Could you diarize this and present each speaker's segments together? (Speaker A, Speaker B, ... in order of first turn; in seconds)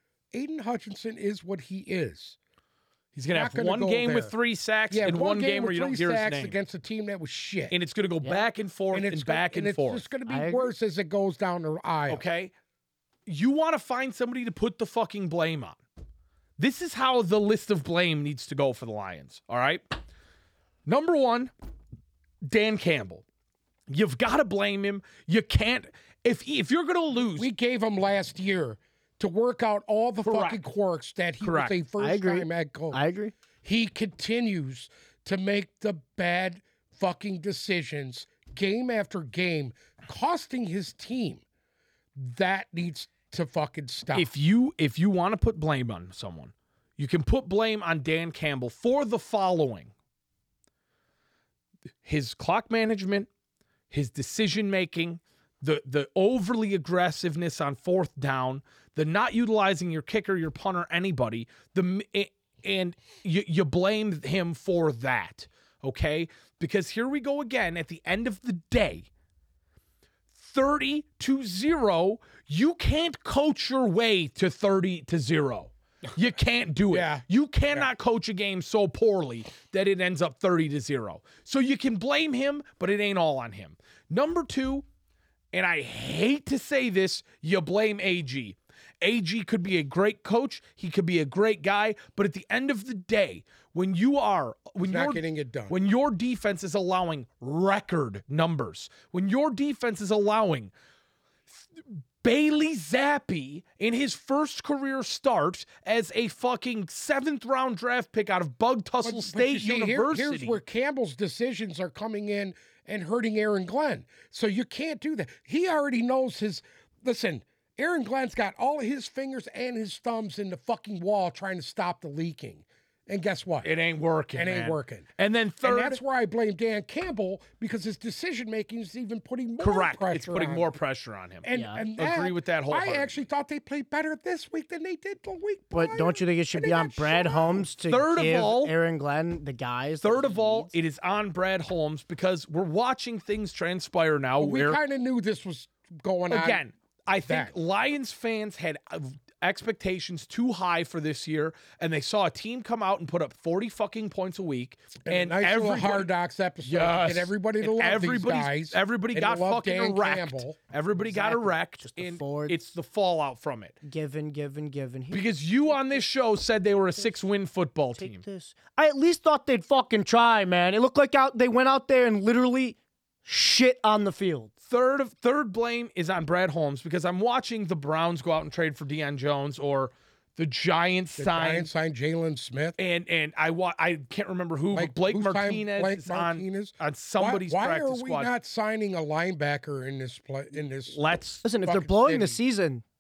Speaker A: 0.3-2.4, 3.3-4.3, 4.9-7.8, 8.9-12.2, 27.4-33.0, 33.6-41.4, 42.2-44.3, 76.9-77.9, 94.8-95.8, 109.0-123.7, 124.3-125.1, 125.6-130.7, 131.4-137.7, 144.4-146.6, 147.3-147.5, 155.1-160.6, 181.2-182.8, 184.7-191.0, 191.6-192.4
Speaker B: 3.1-6.6, 7.7-10.1, 12.1-12.5, 13.3-15.8, 16.6-19.9, 20.9-21.5, 22.4-23.2, 23.9-27.5, 30.2-30.6, 31.4-31.8, 44.1-49.9, 52.0-53.3, 53.9-69.1, 70.3-84.8, 85.5-100.7, 101.5-110.6, 123.6-126.0, 129.6-133.2, 137.8-138.7, 140.0-144.8, 146.3-156.1, 156.7-163.8, 165.1-168.2, 174.7-181.7, 182.8-188.3, 190.9-191.4
Speaker C: 10.3-10.7, 32.0-33.3, 131.5-131.8, 135.7-140.7, 161.1-162.7, 163.8-166.0, 167.0-167.2, 168.0-174.5, 191.4-192.8